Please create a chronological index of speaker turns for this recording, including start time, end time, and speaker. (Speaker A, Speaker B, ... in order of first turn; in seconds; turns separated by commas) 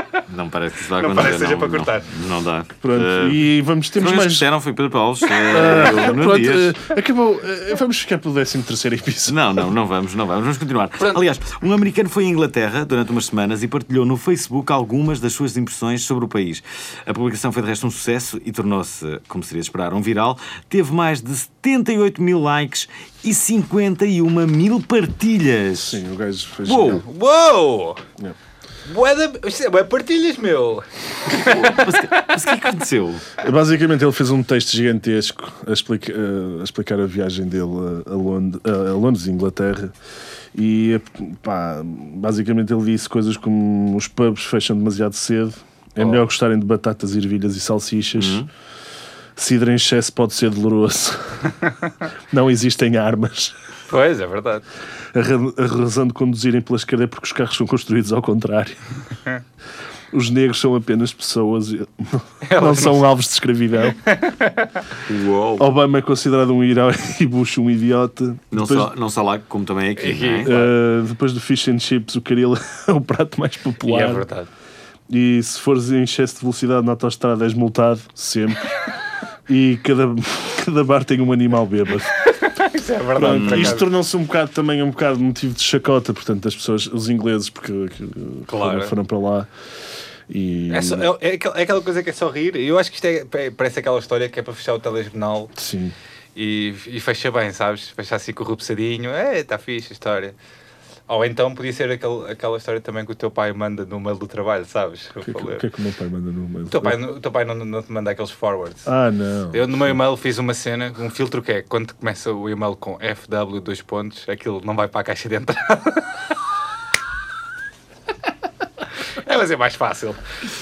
Speaker A: 0.3-3.4, Speaker B: 1.0-2.1, Speaker C: 2.8-4.5, Speaker A: 4.0-6.7, Speaker C: 5.4-9.5, Speaker A: 9.3-26.0, Speaker C: 25.8-27.0, Speaker A: 26.7-27.0, Speaker B: 27.0-28.0, Speaker B: 28.9-31.8, Speaker A: 31.3-33.3, Speaker C: 33.4-39.9, Speaker C: 40.5-48.5, Speaker A: 48.2-48.5, Speaker C: 49.4-51.5, Speaker C: 52.3-53.5, Speaker B: 53.9-54.6, Speaker C: 55.1-58.8, Speaker C: 60.1-64.0, Speaker B: 62.4-63.0, Speaker B: 64.0-64.8, Speaker A: 65.0-65.7, Speaker C: 65.6-68.9, Speaker A: 68.5-70.6, Speaker B: 70.0-70.7, Speaker C: 70.5-74.3, Speaker B: 73.8-74.5, Speaker C: 75.1-78.8, Speaker C: 79.5-82.2, Speaker B: 82.1-83.8, Speaker C: 83.2-89.5, Speaker A: 83.3-83.8, Speaker B: 88.5-88.9, Speaker C: 90.3-91.1, Speaker B: 90.7-95.5, Speaker C: 95.6-96.0, Speaker B: 96.3-100.3, Speaker B: 101.1-105.6, Speaker C: 105.2-107.0, Speaker B: 106.7-108.9, Speaker C: 108.8-110.0, Speaker B: 109.5-116.1, Speaker B: 119.2-120.2